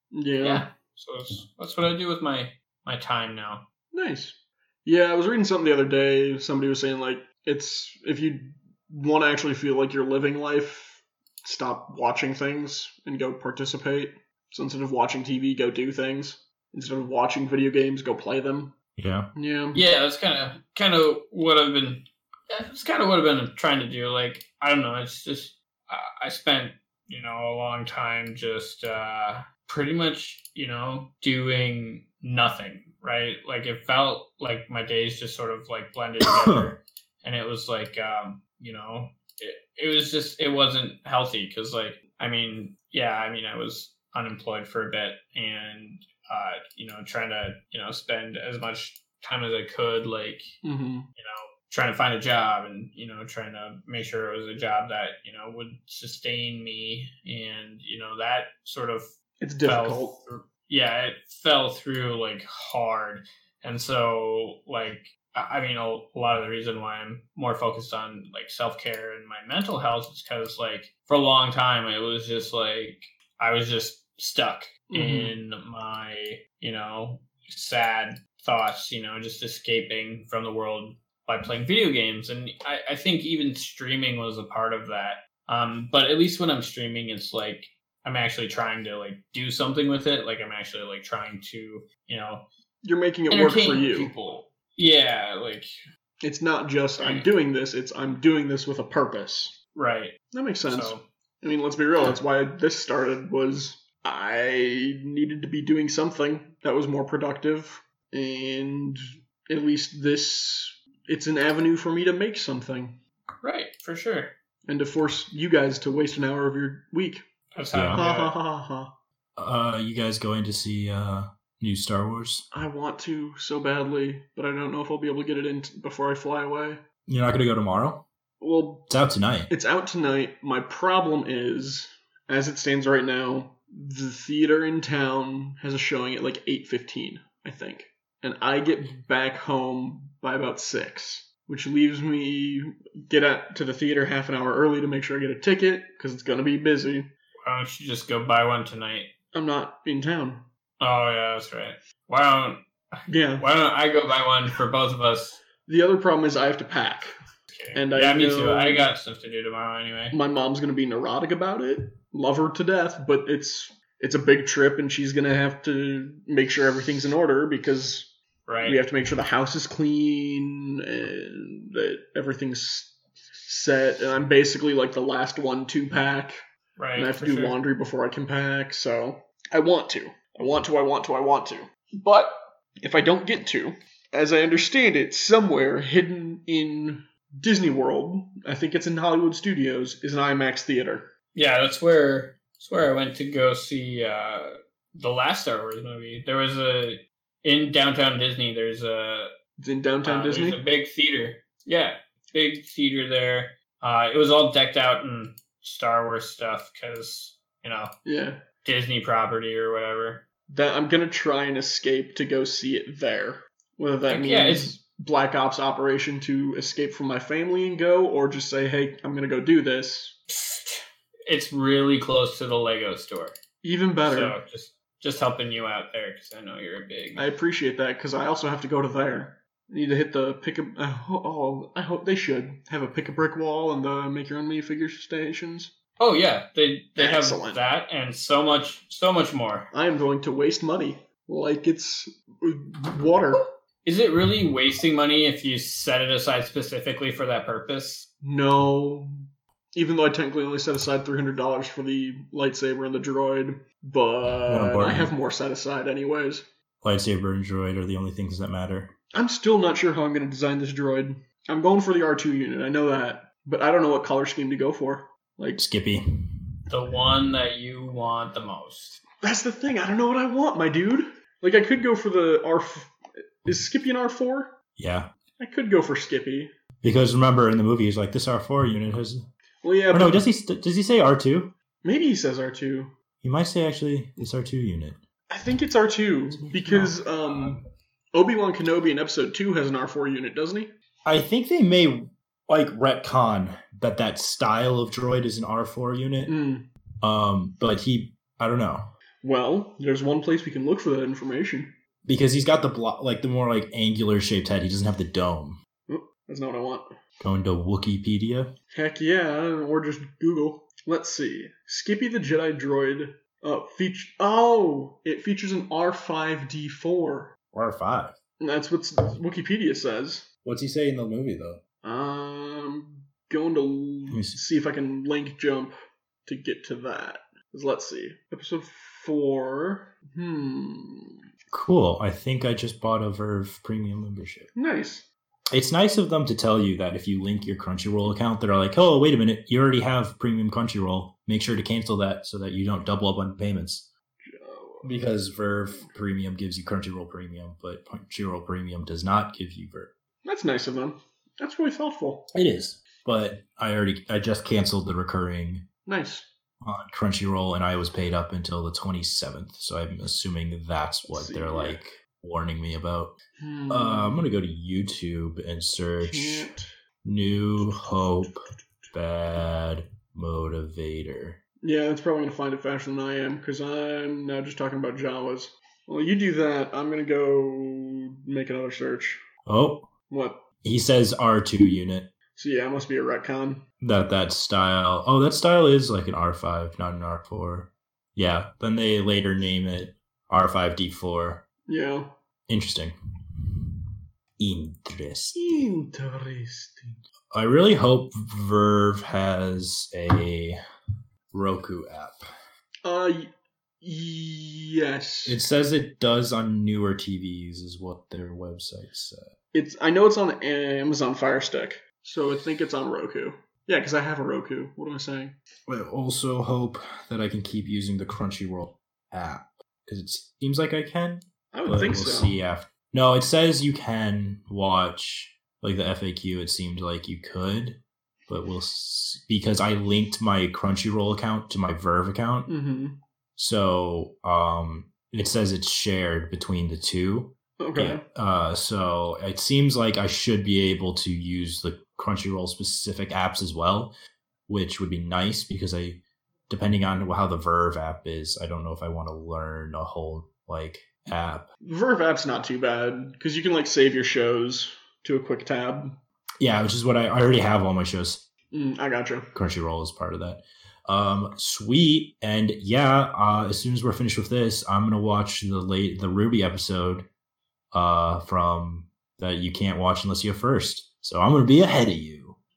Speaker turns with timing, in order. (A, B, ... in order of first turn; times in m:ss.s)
0:00.1-0:00.6 A
0:00.4-0:03.6 B
0:03.9-0:18.7 A
0:19.0-0:19.3 C
0:19.3-0:19.8 A
0:19.7-0:50.5 B
0:36.2-0:36.7 C
0:50.6-0:51.1 A
0:51.2-0:59.1 B
0:59.4-1:00.2 A
0:59.6-1:32.4 B
1:14.9-1:15.3 A
1:32.8-1:34.1 A
1:33.3-1:35.7 B
1:36.2-1:39.5 A
1:37.0-1:37.3 B
1:39.7-1:40.1 B
1:40.3-1:53.0 A
1:40.7-1:41.0 B
1:53.4-1:54.3 B
1:54.7-1:57.2 A
1:57.5-1:58.4 B
1:57.7-1:58.0 C
1:57.9-1:58.9 A
1:59.4-2:02.4 C
2:02.5-2:06.8 A
2:07.1-2:08.0 C
2:08.4-2:08.9 A
2:08.9-2:09.5 C
2:09.5-2:27.1 A
2:27.4-2:29.1 B
2:29.3-2:30.4 A
2:30.8-2:35.4 B
2:33.1-2:33.4 A
2:35.6-2:37.1 A
2:37.5-2:40.2 B
2:37.7-2:38.9 A
2:40.1-2:52.9 A
2:48.4-2:48.8 B
2:53.5-2:56.4 A
2:56.8-2:57.6 B
2:57.0-3:11.1 A
3:11.3-3:19.3 B
3:19.6-3:20.6 A
3:20.0-3:27.9 B
3:28.0-3:28.4 A
3:28.6-3:30.2 B
3:30.5-3:40.2 A
3:34.1-3:34.7 B
3:40.3-3:43.4 B
3:43.6-3:44.4 A
3:44.0-3:47.2 B
3:47.2-3:55.7 A
3:56.0-3:59.7 B
3:57.0-3:57.6 A
3:59.7-4:03.4 A
4:03.8-4:08.1 B
4:08.2-4:09.1 A
4:09.7-4:16.4 A
4:14.5-4:15.1 C
4:16.8-4:18.9 C
4:19.1-4:25.6 A
4:25.6-4:26.5 C
4:26.7-4:29.0 B
4:29.2-4:34.5 A
4:34.8-4:35.1 C
4:35.4-4:36.5 A
4:36.8-4:39.2 C
4:39.6-4:40.2 A
4:39.9-4:41.5 C
4:41.8-4:42.9 A
4:43.2-4:45.0 C
4:45.3-4:47.6 A
4:46.3-4:47.0 C
4:48.1-4:50.7 A
4:51.0-4:56.3 C
4:56.3-4:56.6 A
4:57.0-4:58.8 C
4:59.2-5:01.7 A
5:02.0-5:05.6 C
5:05.9-5:06.8 A
5:07.2-5:08.5 C
5:08.7-5:17.3 A
5:17.5-5:18.2 C
5:18.4-5:20.3 A
5:20.4-5:21.6 C
5:21.8-5:25.7 A
5:24.1-5:24.4 C
5:26.2-5:31.2 A
5:31.5-5:34.5 C
5:34.5-5:35.1 A
5:35.5-5:43.9 C
5:44.2-5:45.2 A
5:44.8-5:49.9 C
5:50.2-5:52.3 A
5:52.3-5:55.6 C
5:55.8-5:56.3 A
5:56.6-6:03.1 C
6:01.1-6:01.8 A
6:03.4-6:04.3 A
6:03.7-6:06.5 C
6:06.0-6:06.7 A
6:07.0-6:08.3 C
6:08.9-6:11.4 C
6:11.6-6:19.2 A
6:19.4-6:19.9 C
6:20.1-6:20.4 A
6:20.6-6:22.1 C
6:22.3-6:23.6 A
6:23.8-6:31.4 C
6:31.7-6:32.1 A
6:32.5-6:35.7 C
6:35.3-6:37.0 A
6:37.3-6:40.6 C
6:41.3-6:42.2 C
6:42.8-6:45.4 A
6:45.2-6:49.3 C
6:49.5-6:55.3 A
6:55.7-7:07.8 C
7:01.5-7:02.4 A
7:08.3-7:12.5 C
7:12.5-7:13.0 A
7:13.4-7:23.9 C
7:17.6-7:18.0 A
7:24.5-7:31.5 C
7:31.6-7:36.0 A
7:36.4-7:38.2 C
7:38.5-7:39.3 A
7:39.3-7:47.0 C
7:47.7-7:52.4 C